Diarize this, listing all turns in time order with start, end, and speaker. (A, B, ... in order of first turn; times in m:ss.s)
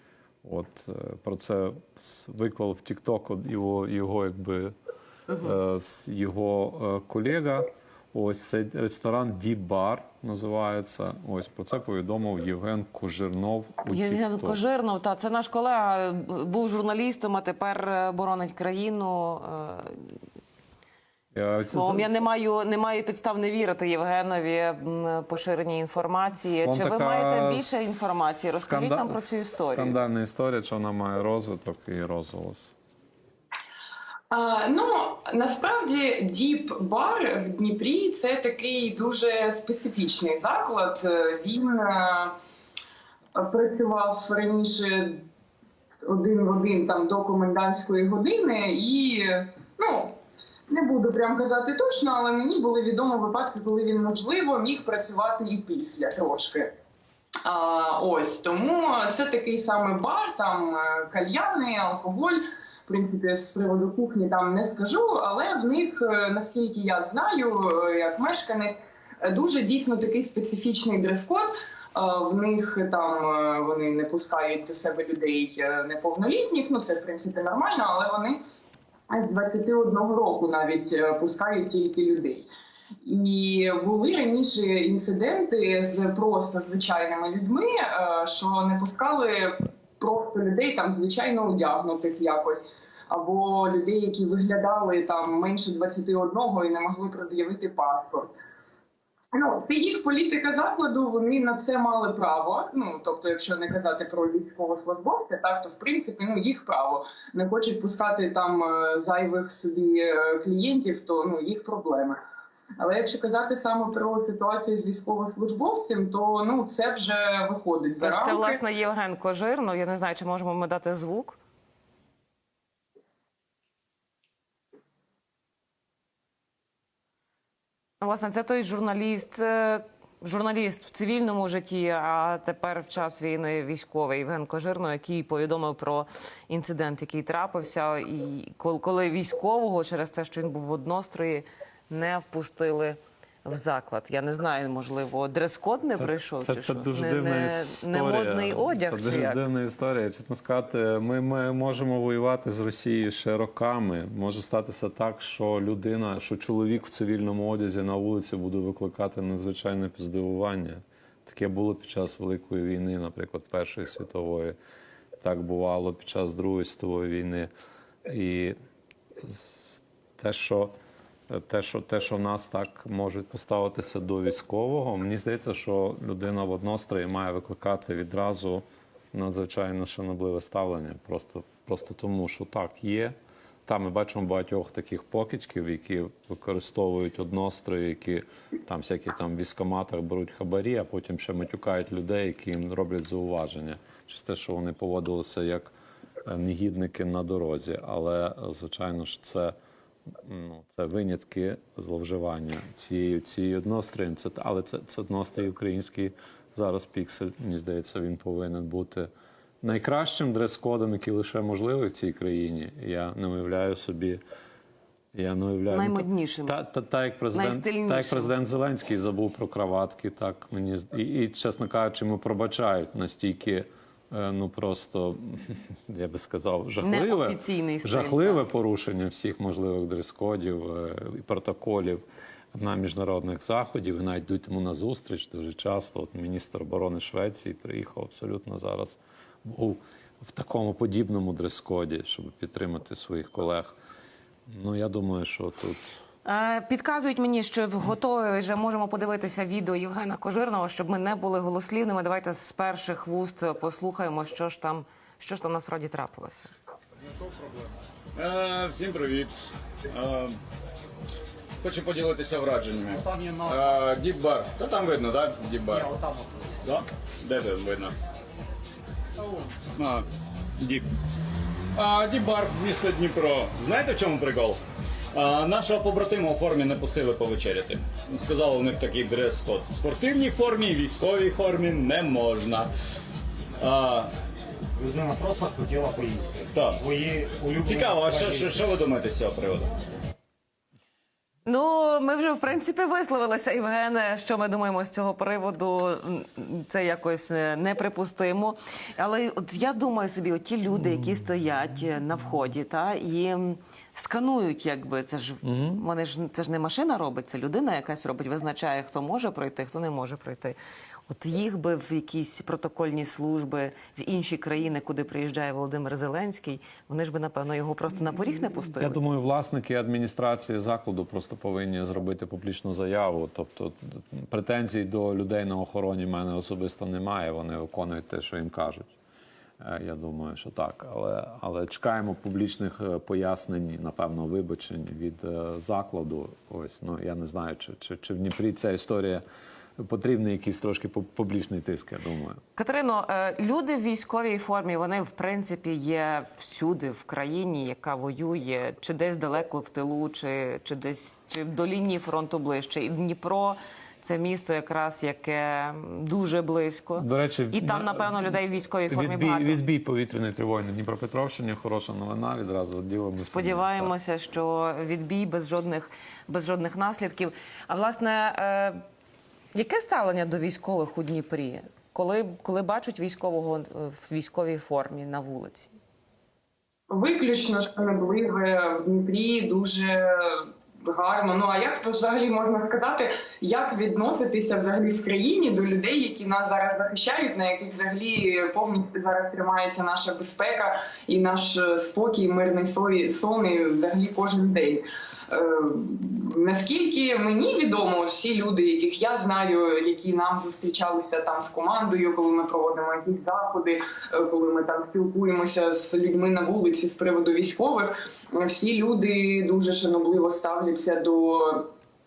0:00.4-0:04.7 A
0:05.3-0:14.6 A
0:13.9-0:20.1 B
0:21.3-0:22.2 A
0:21.6-0:30.0 B
0:26.6-0:32.7 A
0:34.3-0:42.3 C
0:43.4-0:45.2 C
0:46.0-0:50.2 C
0:50.7-0:56.7 C
0:57.4-1:18.4 C
1:19.1-1:22.5 C
1:23.0-1:38.3 C
1:39.3-1:52.2 C
1:52.8-1:58.6 C
1:58.0-2:01.4 B
2:08.0-2:29.4 B
2:26.0-2:44.6 A
2:45.2-2:47.5 A
2:48.0-2:48.6 A
2:49.2-2:50.7 A
2:51.3-3:03.1 A
3:03.6-3:15.7 A
3:16.2-3:19.5 A
3:20.2-3:29.1 A
3:29.6-3:34.2 A
3:35.1-3:52.0 A
3:35.7-3:36.6 B
3:37.3-3:38.3 B
3:46.8-3:48.4 B
3:52.5-4:03.7 A
4:04.5-4:05.9 A
4:06.2-4:16.5 B
4:18.1-4:19.3 D
4:19.9-4:20.4 D
4:21.6-4:25.9 D
4:22.9-4:23.7 E
4:25.7-4:26.6 E
4:26.6-4:27.9 D
4:29.8-4:30.0 D
4:30.6-4:30.9 D
4:31.7-4:34.6 D
4:35.1-4:42.7 D
4:43.6-4:44.1 D
4:44.8-4:48.6 E
4:46.5-4:46.8 D
4:47.6-4:49.7 D
4:51.4-5:10.6 B
5:05.4-5:05.8 A
5:11.1-5:19.0 B
5:18.8-5:28.9 A
5:29.6-5:39.2 A
5:39.8-5:42.4 A
5:42.6-5:59.6 B
5:57.0-5:58.2 A
5:58.9-6:03.9 A
6:03.2-6:08.8 B
6:09.5-6:15.7 B
6:16.9-6:51.7 C